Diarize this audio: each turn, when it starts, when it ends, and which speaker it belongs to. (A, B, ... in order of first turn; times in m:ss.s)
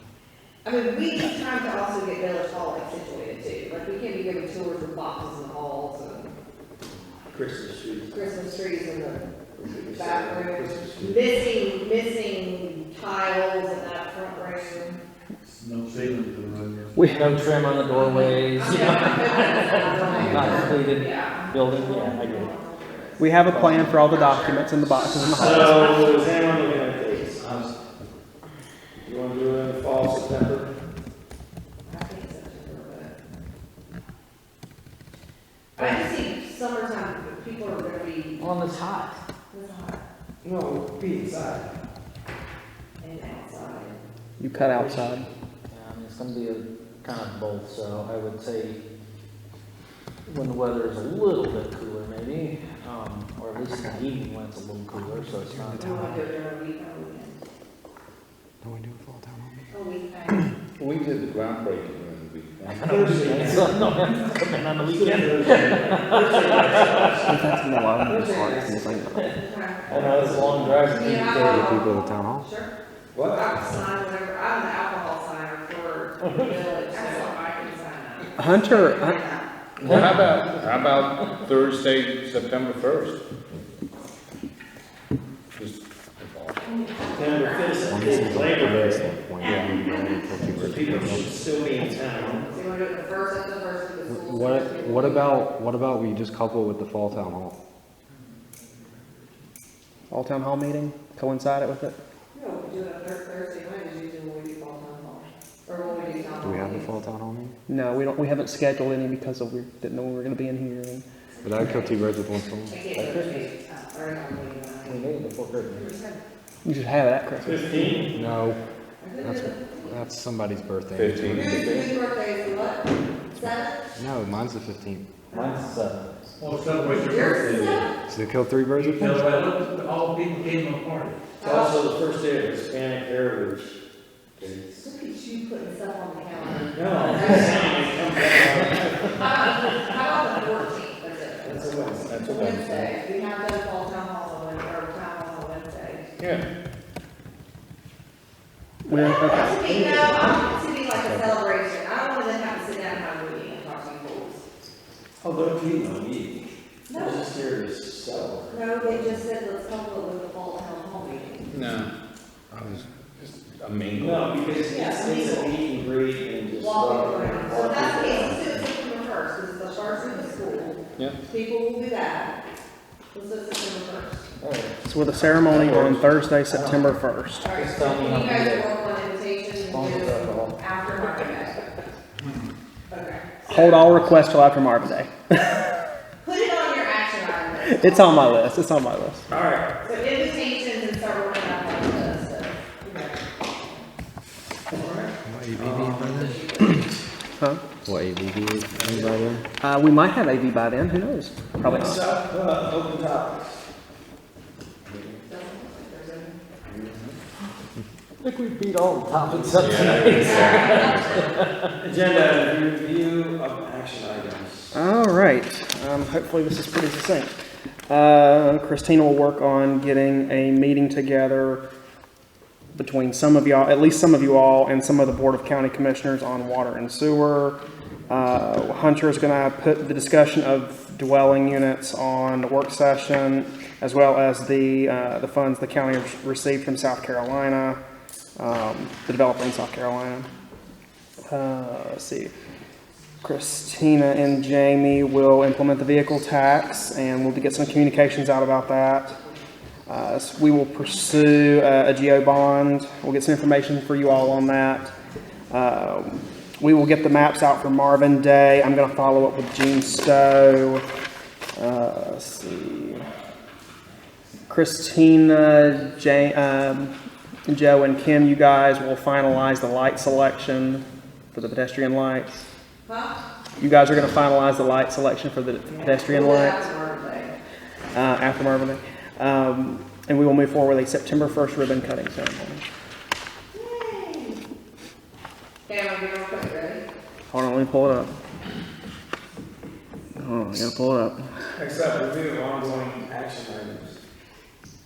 0:00.6-0:06.3 A
0:07.3-0:08.2 B
0:08.1-0:15.0 A
0:09.6-0:11.3 B
0:15.4-0:17.2 C
0:16.9-0:17.3 D
0:17.1-0:22.5 E
0:17.9-0:26.2 A
0:23.2-0:26.1 D
0:23.5-0:23.8 E
0:25.3-0:27.5 B
0:29.0-0:30.7 B
0:31.8-0:33.2 A
0:35.8-0:38.5 A
0:38.4-0:39.2 E
0:39.5-0:40.0 A
0:40.4-0:41.7 B
0:43.0-0:44.0 A
0:44.4-0:45.3 D
0:44.5-0:45.3 B
0:45.7-0:48.8 E
0:50.3-0:56.1 E
0:55.6-0:56.1 F
0:55.7-0:57.4 A
0:58.6-0:59.7 F
0:59.7-1:00.5 A
1:00.8-1:03.5 G
1:02.7-1:03.9 B
1:02.9-1:07.2 E
1:04.9-1:09.2 B
1:07.2-1:09.3 D
1:09.3-1:10.0 A
1:09.9-1:11.0 B
1:09.9-1:11.7 E
1:10.9-1:19.5 A
1:11.4-1:12.5 F
1:13.1-1:13.6 B
1:16.2-1:16.6 E
1:18.4-1:19.2 D
1:19.8-1:23.2 G
1:19.8-1:20.4 E
1:25.6-1:26.6 G
1:26.6-1:28.2 A
1:27.1-1:29.2 B
1:27.9-1:31.4 F
1:29.4-1:29.8 G
1:29.4-1:30.4 A
1:30.5-1:32.5 B
1:30.6-1:31.0 G
1:32.5-1:35.5 A
1:34.1-1:37.6 F
1:40.1-1:42.0 D
1:42.3-1:46.9 A
1:46.4-1:47.6 F
1:47.7-1:51.0 D
1:51.3-1:52.0 A
1:51.4-1:52.8 F
1:52.6-1:55.1 A
1:53.0-1:53.5 E
1:54.8-1:55.9 E
1:55.7-1:56.2 A
1:56.6-1:57.6 D
1:57.4-1:58.2 B
1:58.1-1:58.6 F
1:59.0-2:00.0 A
1:59.2-2:01.7 F
2:00.9-2:01.9 G
2:01.3-2:03.9 A
2:04.0-2:05.1 F
2:05.3-2:05.7 A
2:05.3-2:06.1 E
2:06.4-2:07.8 C
2:06.8-2:08.0 A
2:08.1-2:09.2 F
2:08.7-2:11.2 C
2:11.4-2:11.8 A
2:11.4-2:13.7 B
2:14.4-2:14.8 B
2:14.7-2:18.2 A
2:16.7-2:19.5 B
2:19.1-2:26.2 A
2:21.4-2:22.9 B
2:26.2-2:26.4 G
2:28.8-2:29.6 D
2:28.9-2:30.2 B
2:29.1-2:34.4 A
2:35.2-2:39.2 B
2:36.9-2:37.3 A
2:38.5-2:41.6 A
2:41.5-2:41.9 G
2:42.5-2:44.4 G
2:44.0-2:48.6 B
2:44.7-2:45.6 A
2:46.6-2:52.4 A
2:53.1-2:54.3 A
2:54.4-2:54.8 E
2:54.8-2:57.5 D
2:55.4-2:56.2 G
2:56.5-2:56.9 E
2:57.4-3:01.6 A
2:57.5-2:58.8 E
2:59.6-3:00.6 E
3:02.9-3:03.9 A
3:03.5-3:05.4 D
3:06.2-3:08.6 A
3:07.6-3:09.3 D
3:09.3-3:09.8 B
3:09.8-3:13.8 A
3:14.7-3:16.2 B
3:15.2-3:16.7 F
3:16.0-3:16.9 A
3:17.8-3:19.4 F
3:18.8-3:19.2 B
3:19.6-3:22.0 D
3:21.6-3:23.6 B
3:24.8-3:25.2 B
3:25.2-3:26.4 A
3:26.7-3:27.1 B
3:28.2-3:31.7 E
3:29.2-3:30.2 B
3:29.6-3:31.4 G
3:30.2-3:31.1 A
3:31.8-3:34.8 B
3:34.7-3:37.4 D
3:37.9-3:41.6 D
3:42.7-3:57.8 D
3:58.4-4:00.3 D
4:01.2-4:02.3 D
4:03.2-4:09.2 D
4:09.9-4:14.9 D
4:15.5-4:20.8 D
4:21.6-4:23.0 D
4:24.5-4:26.9 D
4:27.5-4:32.4 D
4:32.8-4:33.2 A
4:33.6-4:36.7 D
4:35.6-4:37.4 A
4:37.9-4:42.6 D
4:43.5-4:44.4 A
4:45.6-4:46.8 A
4:47.3-4:48.1 D
4:50.2-4:51.3 D
4:51.6-4:54.0 B